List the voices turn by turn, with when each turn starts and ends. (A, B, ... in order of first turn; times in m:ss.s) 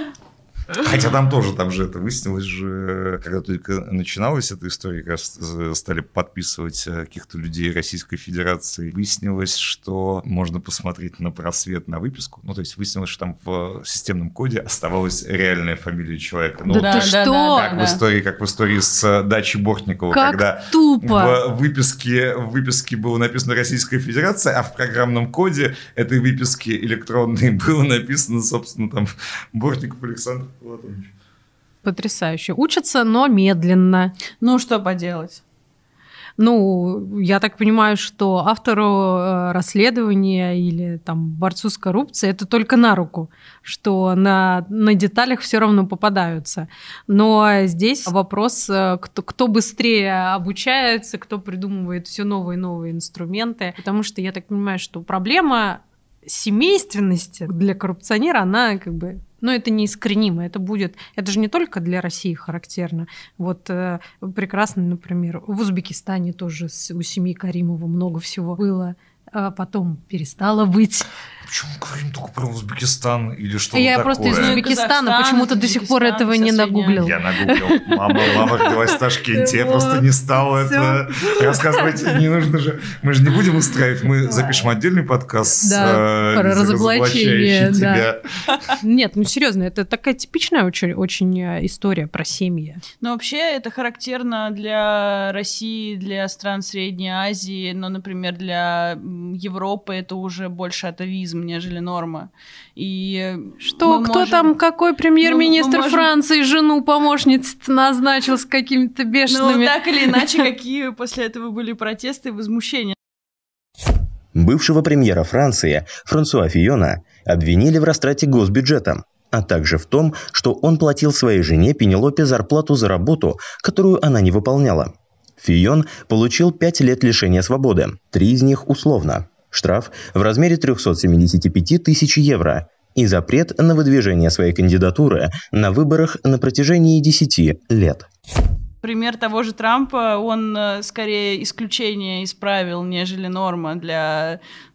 0:00.7-0:31.1 A
0:16.7-0:17.7 B
0:16.7-0:18.0 C
0:20.1-0:21.4 B
0:31.8-0:34.1 B
0:34.4-0:35.4 C
0:36.4-1:11.1 B
1:11.4-1:14.6 A
1:13.7-1:18.7 B
1:14.3-1:17.0 C
1:17.0-1:28.2 A
1:19.3-1:22.1 B
1:25.6-1:28.1 B
1:28.8-1:32.8 B
1:33.0-1:44.5 C
1:43.6-1:50.3 B
1:45.2-1:46.1 C
1:49.3-1:53.0 C
1:54.4-2:18.1 D
2:18.8-2:24.4 C